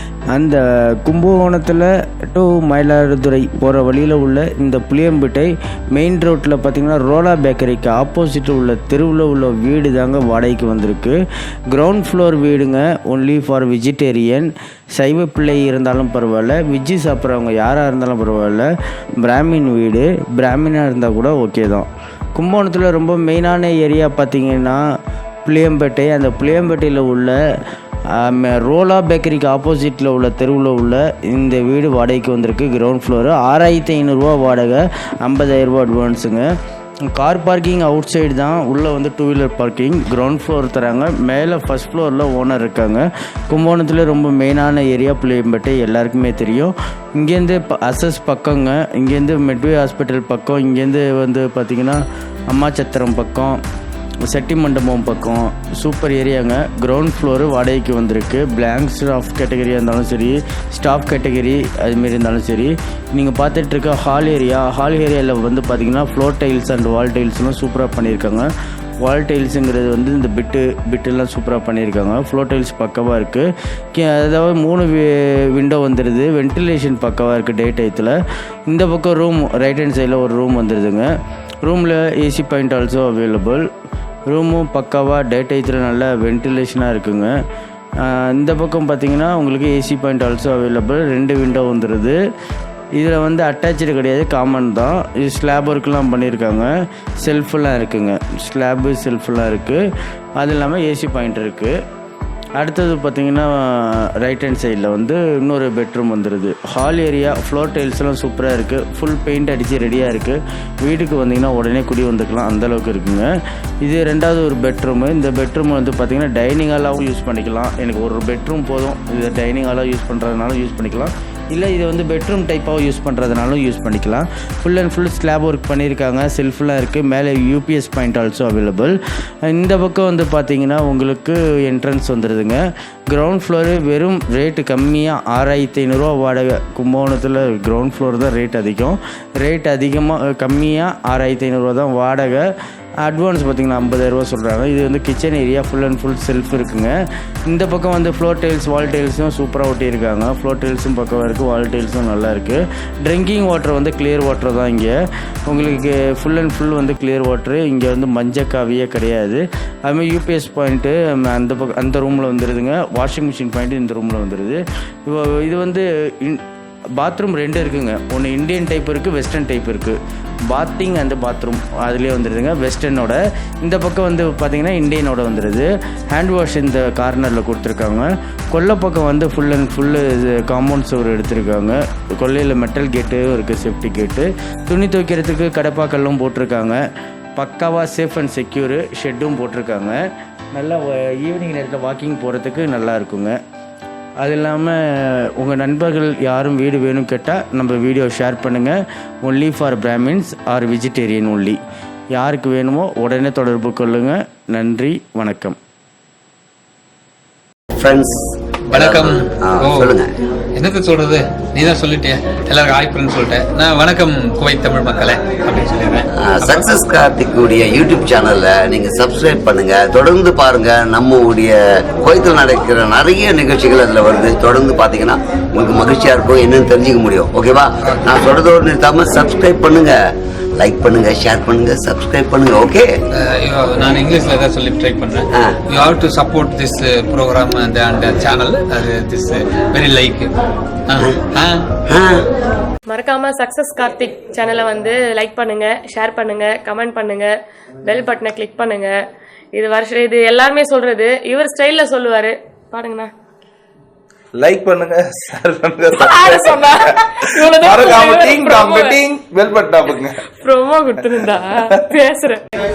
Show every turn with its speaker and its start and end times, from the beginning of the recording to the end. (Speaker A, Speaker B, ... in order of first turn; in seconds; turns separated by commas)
Speaker A: 0.3-11.2, Speaker A: 11.7-18.7, Speaker A: 19.2-24.8, Speaker A: 25.5-27.4, Speaker A: 28.2-36.5, Speaker A: 37.1-53.6, Speaker A: 54.3-68.5, Speaker A: 69.0-78.2, Speaker A: 78.7-81.1, Speaker A: 81.6-83.7, Speaker A: 84.3-87.3, Speaker A: 88.0-92.2, Speaker A: 93.0-96.7, Speaker A: 97.2-99.8, Speaker A: 100.4-101.8, Speaker A: 102.6-113.3, Speaker A: 113.8-129.0, Speaker A: 129.5-142.5, Speaker A: 143.0-146.9, Speaker A: 147.5-154.9, Speaker A: 155.5-166.4, Speaker A: 167.0-170.0, Speaker A: 170.5-186.8, Speaker A: 187.4-190.0, Speaker A: 190.5-193.4, Speaker A: 194.2-201.6, Speaker A: 202.2-205.6, Speaker B: 207.8-210.1, Speaker C: 208.7-209.9, Speaker C: 210.6-216.7, Speaker B: 216.2-230.0, Speaker B: 230.6-232.9, Speaker C: 233.1-240.3, Speaker C: 240.9-241.6, Speaker B: 241.9-242.3, Speaker D: 242.9-247.3, Speaker D: 247.8-248.9, Speaker D: 249.6-253.1, Speaker E: 254.3-260.2, Speaker D: 255.9-259.0, Speaker D: 260.4-262.4, Speaker E: 261.1-261.9